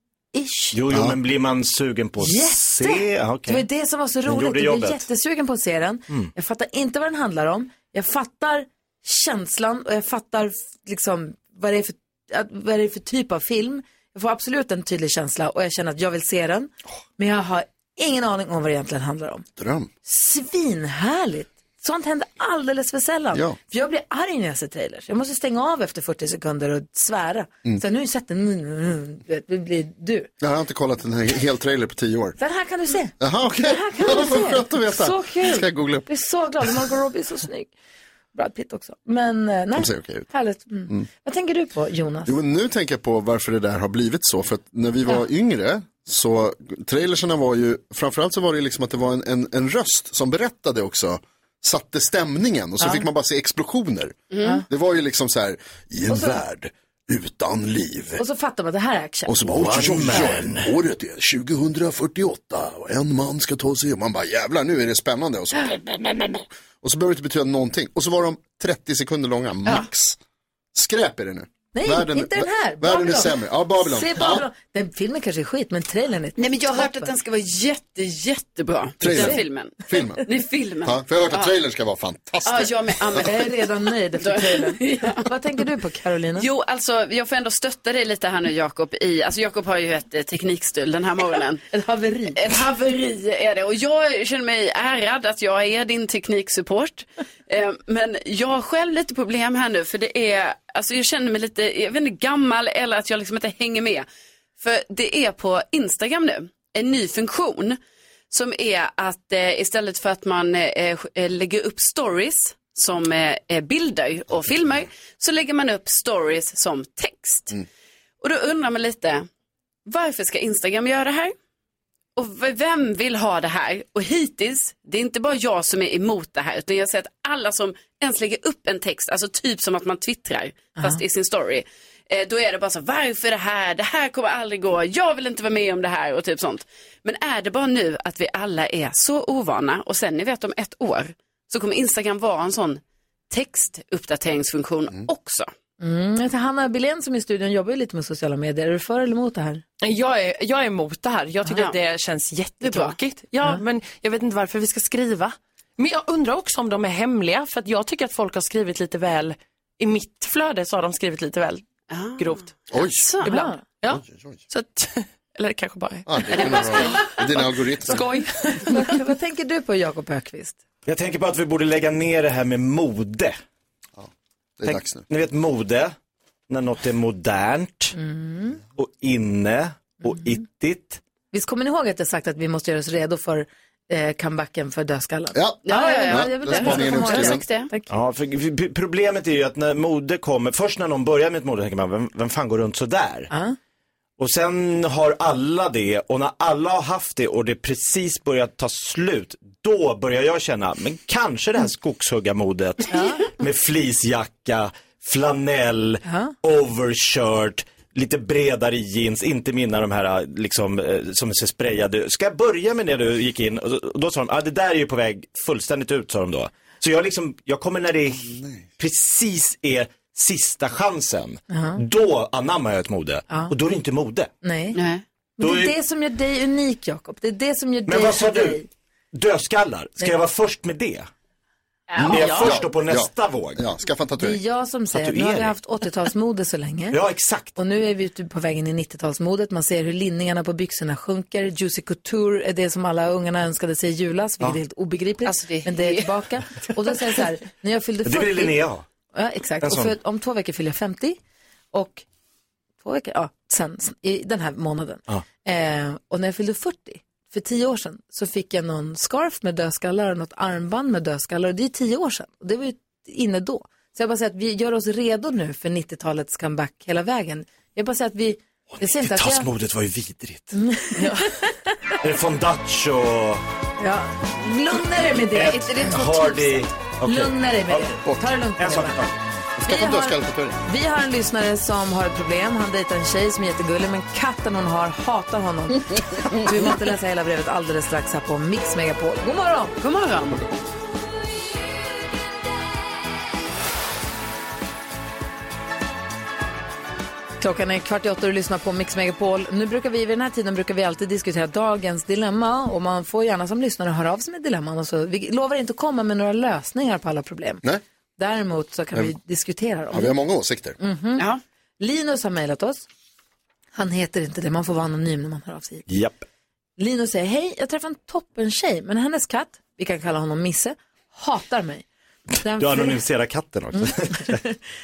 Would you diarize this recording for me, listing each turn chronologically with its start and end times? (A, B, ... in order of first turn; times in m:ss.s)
0:00.3-0:00.8 A
0:00.7-0:03.6 B
0:00.9-0:01.2 C
0:02.2-0:19.5 A
0:04.3-0:05.0 B
0:19.6-0:19.9 C
0:20.0-0:30.3 A
0:30.4-0:32.4 C
0:32.4-0:37.7 A
0:33.2-0:36.1 C
0:38.3-0:42.3 A
0:39.8-0:40.3 C
0:42.3-0:58.2 C
0:52.8-0:53.0 A
0:54.3-0:54.6 D
0:56.1-0:56.4 A
0:58.2-0:59.4 A
0:59.3-1:10.2 C
0:59.5-1:00.7 B
1:10.7-1:14.4 C
1:11.7-1:17.1 A
1:16.4-1:21.5 D
1:19.0-1:20.2 C
1:19.1-1:19.4 A
1:20.8-1:23.3 C
1:22.4-1:23.6 D
1:23.2-1:26.5 A
1:24.2-1:25.3 D
1:26.4-1:31.6 D
1:31.7-1:32.4 A
1:32.3-1:44.1 D
1:44.6-1:47.8 D
1:48.3-1:57.6 D
1:58.2-1:59.3 D
1:59.9-2:01.3 D
2:02.2-2:25.5 D
2:25.8-2:29.6 A
2:29.8-2:42.6 E
2:31.4-2:31.8 D
2:32.6-2:33.0 D
2:41.9-2:43.4 D
2:42.7-2:43.0 C
2:43.2-2:43.6 A
2:43.7-2:49.0 E
2:43.9-2:44.4 C
2:46.1-2:48.1 C
2:48.5-2:50.6 A
2:50.9-2:53.4 B
2:54.0-2:55.0 C
2:54.7-2:56.0 B
2:56.5-2:58.0 B
2:58.0-2:58.6 A
2:58.8-3:01.0 B
3:01.3-3:07.9 A
3:05.3-3:07.4 C
3:05.7-3:07.7 D
3:07.9-3:13.3 B
3:13.3-3:13.6 A
3:14.2-3:44.3 B
3:22.9-3:23.2 A
3:26.0-3:26.4 A
3:38.3-3:38.6 C
3:41.5-3:41.8 A
3:44.4-3:44.8 A
3:44.8-3:45.0 D
3:45.4-3:48.7 A
3:45.4-3:45.7 B
3:47.9-3:48.6 B
3:49.2-3:51.1 B
3:52.0-3:54.4 C
3:52.0-3:53.6 B
3:54.2-3:57.0 A
3:54.9-3:55.5 B
3:56.9-3:57.5 B
3:57.6-4:08.6 A
4:05.3-4:06.0 D
4:08.0-4:08.8 B
4:09.1-4:11.2 A
4:09.6-4:09.9 B
4:11.7-4:12.0 A
4:12.8-4:29.5 A
4:28.8-4:30.6 B
4:30.5-4:32.0 A
4:32.0-4:33.4 B
4:33.8-4:39.0 A
4:35.2-4:39.2 B
4:38.1-4:38.3 C
4:39.6-4:40.6 C
4:39.6-4:49.7 A
4:49.8-4:50.4 D
4:57.4-5:07.6 A
5:08.2-5:10.1 A
5:09.9-5:10.8 C
5:10.8-5:11.3 A
5:11.8-5:12.8 A
5:13.7-5:15.9 A
5:15.9-5:16.2 B
5:16.8-5:21.8 A
5:22.4-5:23.0 A
5:22.6-5:24.4 B
5:24.1-5:24.6 A